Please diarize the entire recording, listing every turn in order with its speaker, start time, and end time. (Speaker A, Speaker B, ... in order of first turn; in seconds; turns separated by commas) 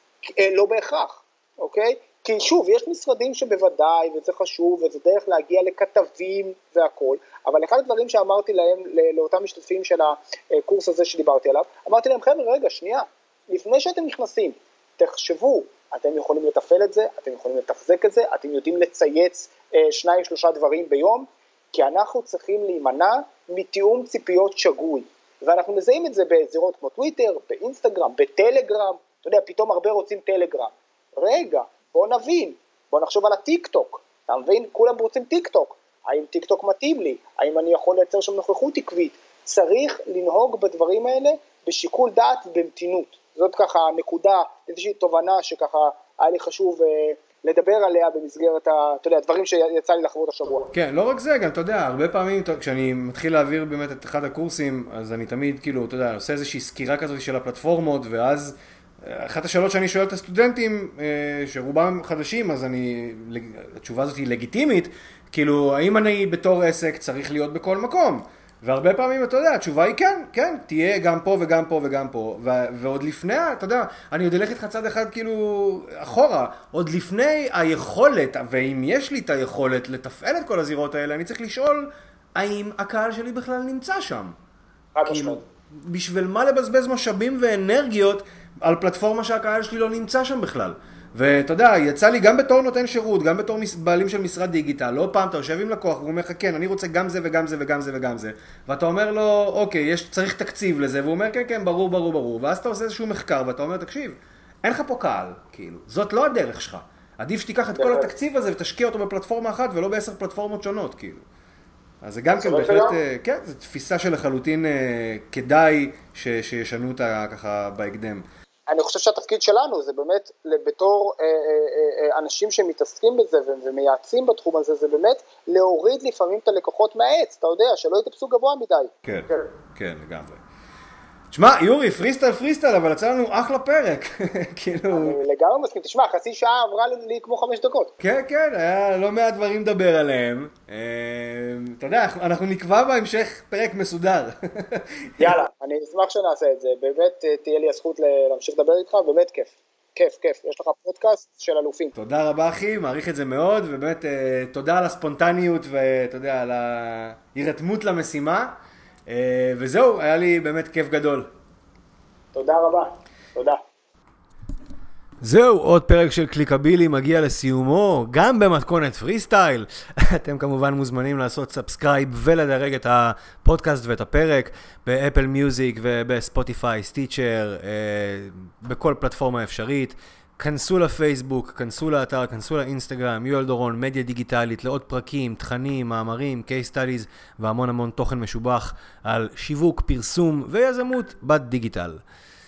Speaker A: 0.3-50.7, Speaker B: 50.7-84.3, Speaker A: 84.9-85.4, Speaker B: 85.0-111.2, Speaker A: 107.7-108.1, Speaker B: 112.0-118.2, Speaker A: 112.3-113.0, Speaker A: 118.7-129.5, Speaker B: 129.0-130.4, Speaker B: 131.3-135.2, Speaker A: 134.9-137.9, Speaker B: 138.0-145.3, Speaker A: 145.2-151.9, Speaker B: 151.9-158.5, Speaker B: 159.1-161.3, Speaker A: 162.3-163.6, Speaker B: 165.2-192.0